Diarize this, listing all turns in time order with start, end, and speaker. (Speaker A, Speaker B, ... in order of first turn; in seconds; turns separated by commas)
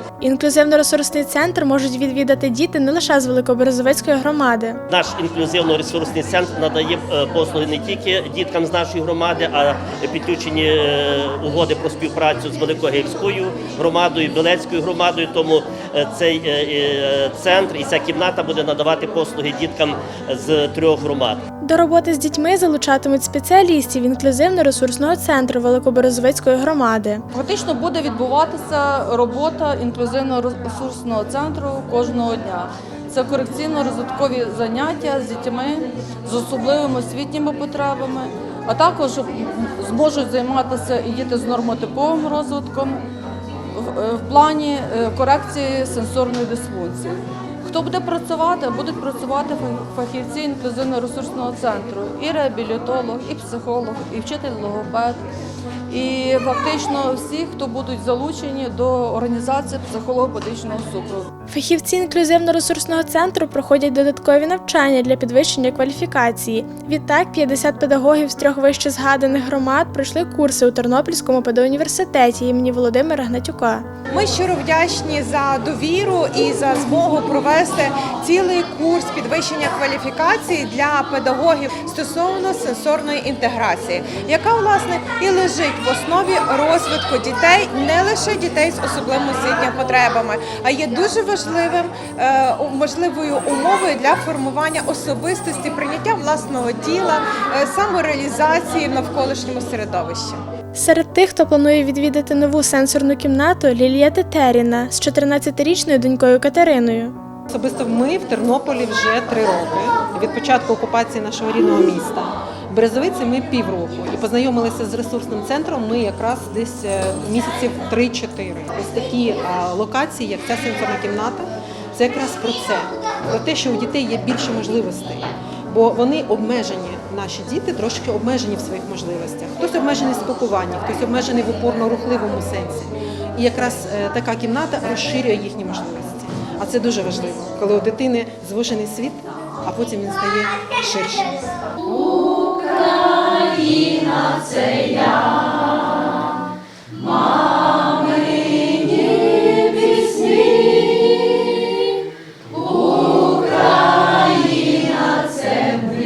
Speaker A: 0.2-4.8, Speaker B: 4.9-21.4, Speaker A: 21.6-27.2, Speaker C: 27.3-43.0, Speaker C: 43.7-55.2, Speaker C: 55.9-61.3, Speaker A: 61.5-73.8, Speaker D: 74.1-100.4, Speaker A: 100.7-107.1, Speaker E: 107.5-141.3